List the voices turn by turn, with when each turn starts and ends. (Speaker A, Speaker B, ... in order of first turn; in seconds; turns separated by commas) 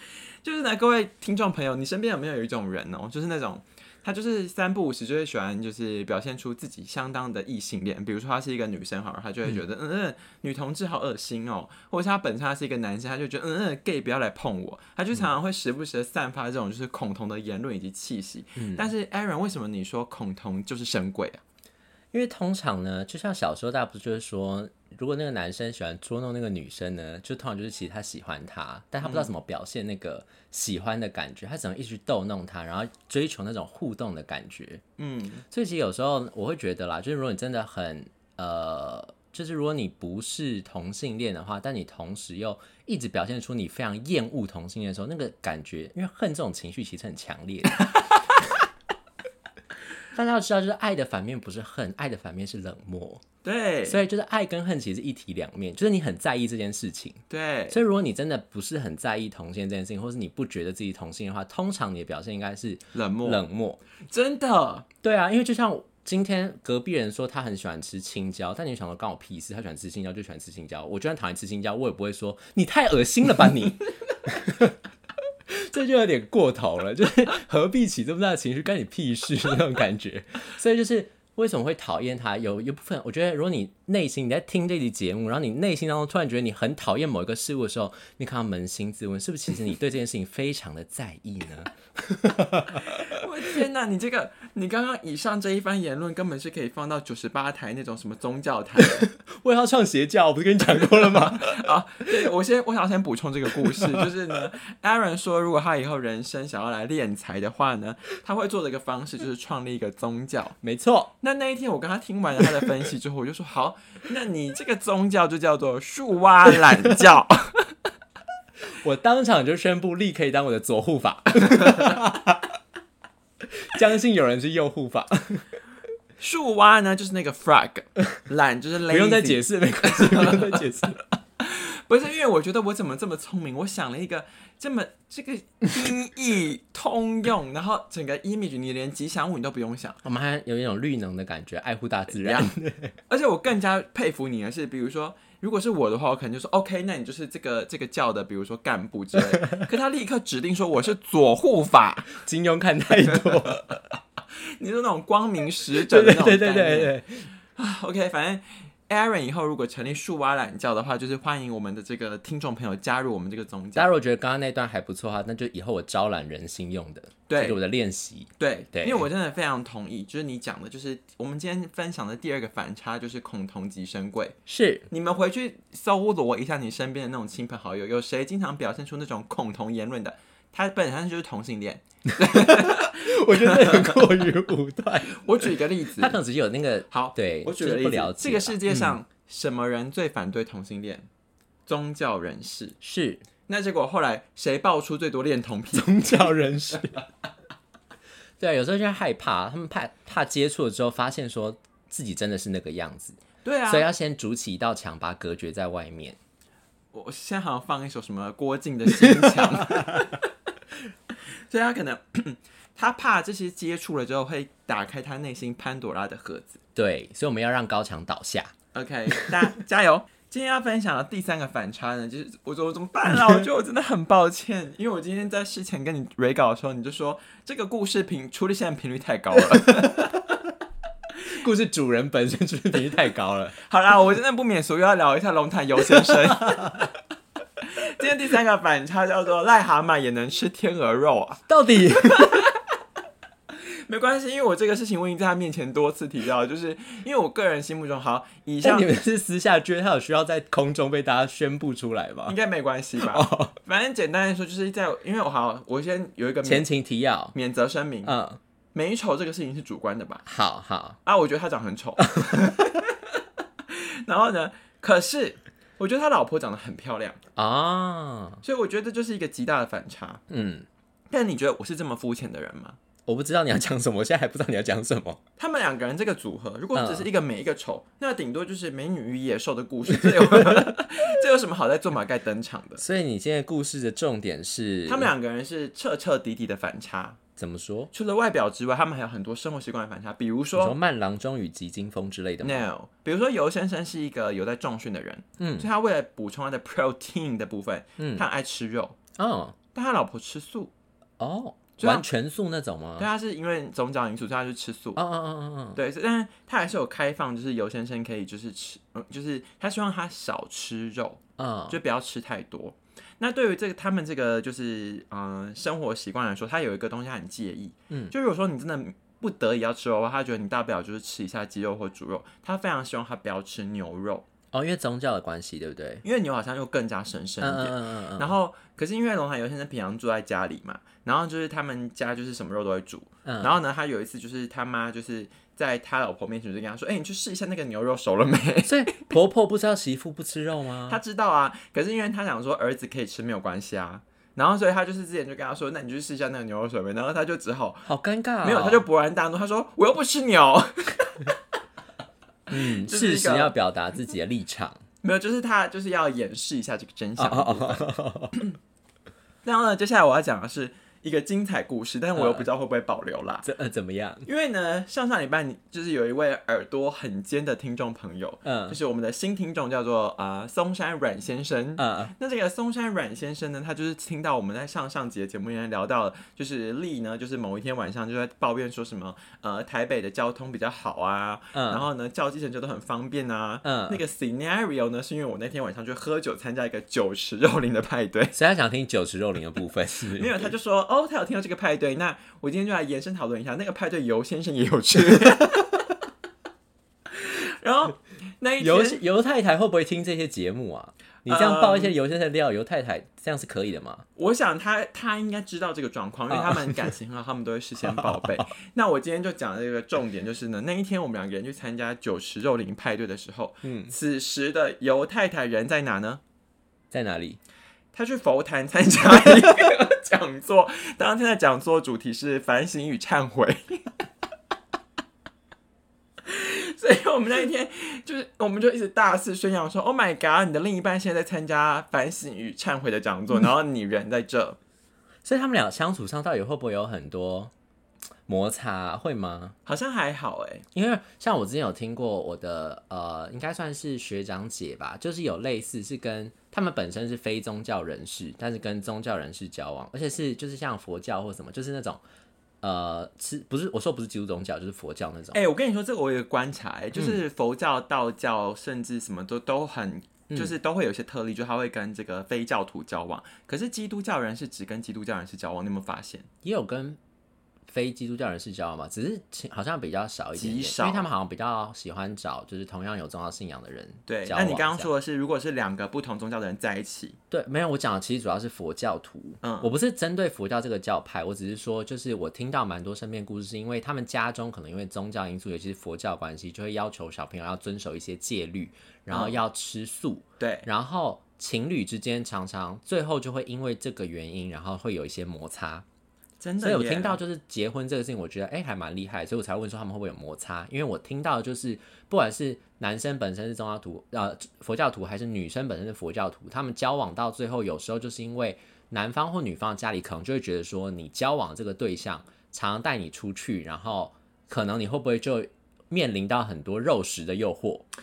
Speaker A: 0.4-21.4, Speaker B: 18.6-18.9, Speaker B: 22.1-34.8, Speaker A: 29.0-29.3, Speaker A: 35.0-35.4, Speaker B: 35.5-48.0, Speaker B: 50.1-53.2, Speaker A: 53.4-54.0, Speaker B: 53.9-63.8, Speaker A: 57.3-57.8, Speaker A: 62.9-63.4, Speaker A: 64.1-64.9, Speaker B: 65.0-74.8, Speaker B: 75.5-93.2, Speaker A: 92.8-99.1, Speaker B: 98.8-101.6, Speaker A: 100.7-110.6, Speaker B: 103.5-104.1, Speaker B: 110.6-111.1, Speaker A: 111.2-117.7, Speaker B: 118.7-122.5, Speaker B: 123.4-125.6, Speaker A: 126.2-130.6, Speaker B: 128.9-131.0, Speaker A: 131.4-140.0, Speaker B: 140.0-142.9, Speaker A: 142.1-142.5, Speaker A: 143.1-152.1, Speaker B: 152.1-153.8, Speaker A: 154.6-156.9, Speaker B: 155.7-157.3, Speaker A: 157.6-163.9, Speaker B: 163.7-169.0, Speaker A: 167.3-167.6, Speaker A: 168.4-174.4, Speaker B: 174.5-174.9, Speaker A: 174.9-184.0, Speaker B: 182.2-188.9, Speaker A: 185.1-186.2, Speaker A: 186.9-191.1, Speaker A: 191.7-192.8, Speaker B: 192.8-193.2, Speaker A: 193.5-196.1, Speaker B: 195.7-197.0, Speaker B: 198.4-206.2, Speaker A: 203.4-203.9, Speaker A: 206.9-210.3, Speaker B: 209.0-210.1, Speaker A: 211.5-216.6, Speaker B: 216.7-218.5, Speaker A: 218.7-230.2, Speaker B: 219.1-219.4, Speaker B: 229.8-230.1, Speaker B: 231.2-233.5, Speaker A: 233.6-236.9, Speaker B: 235.9-236.9, Speaker A: 237.6-241.4, Speaker B: 241.5-242.3, Speaker A: 242.0-242.5, Speaker A: 243.9-248.9, Speaker B: 248.6-252.4, Speaker A: 252.3-256.7, Speaker B: 253.0-253.5, Speaker B: 256.4-257.3, Speaker A: 257.3-258.1, Speaker B: 258.1-258.4, Speaker A: 258.7-260.2, Speaker B: 260.2-261.0, Speaker A: 261.0-263.1, Speaker B: 262.2-262.6, Speaker A: 263.7-267.2, Speaker B: 267.4-268.4, Speaker A: 268.4-270.2, Speaker B: 270.3-270.6, Speaker A: 271.1-272.8, Speaker B: 273.1-275.2, Speaker A: 275.4-282.8, Speaker B: 276.7-277.1, Speaker B: 280.0-280.8, Speaker B: 282.8-285.1, Speaker A: 284.9-287.2, Speaker B: 287.4-287.9, Speaker A: 287.9-290.8, Speaker B: 290.6-292.6, Speaker A: 292.4-299.0, Speaker B: 295.4-295.7, Speaker B: 298.0-298.2, Speaker B: 299.2-299.6, Speaker A: 299.7-300.7, Speaker B: 301.2-303.1, Speaker A: 301.8-302.1, Speaker A: 303.0-305.0, Speaker B: 304.9-305.8, Speaker A: 305.7-324.2, Speaker B: 311.4-311.8, Speaker B: 324.5-326.0, Speaker A: 326.0-339.1, Speaker B: 327.4-328.3, Speaker B: 333.2-333.5, Speaker B: 338.6-341.0, Speaker A: 340.9-347.9, Speaker B: 347.9-348.8, Speaker A: 348.4-351.4, Speaker A: 352.5-353.5, Speaker B: 352.5-354.8, Speaker A: 355.0-358.5, Speaker B: 357.2-358.4, Speaker A: 359.4-363.4, Speaker B: 362.1-362.5, Speaker B: 363.4-364.3, Speaker A: 364.2-388.4, Speaker B: 368.4-368.8, Speaker B: 371.8-372.1, Speaker B: 381.5-381.9, Speaker B: 383.6-384.0, Speaker B: 388.3-390.5, Speaker A: 390.1-395.8, Speaker A: 397.1-399.0, Speaker B: 398.6-404.1, Speaker A: 401.3-401.9, Speaker A: 404.1-416.2, Speaker B: 406.3-406.9, Speaker B: 407.8-408.4, Speaker B: 413.6-413.9, Speaker B: 416.9-417.4, Speaker A: 417.9-423.9, Speaker A: 426.2-434.6, Speaker B: 435.2-437.5, Speaker B: 438.3-439.5, Speaker A: 439.6-440.6, Speaker B: 440.7-452.0, Speaker B: 452.6-455.4, Speaker A: 455.3-466.3, Speaker B: 460.3-460.5, Speaker B: 466.4-467.0, Speaker B: 467.7-474.9, Speaker A: 470.4-471.1, Speaker A: 474.1-477.2, Speaker B: 477.3-495.8, Speaker A: 479.4-479.7, Speaker A: 489.1-489.4, Speaker A: 490.4-490.7, Speaker A: 496.4-497.2, Speaker B: 496.6-517.9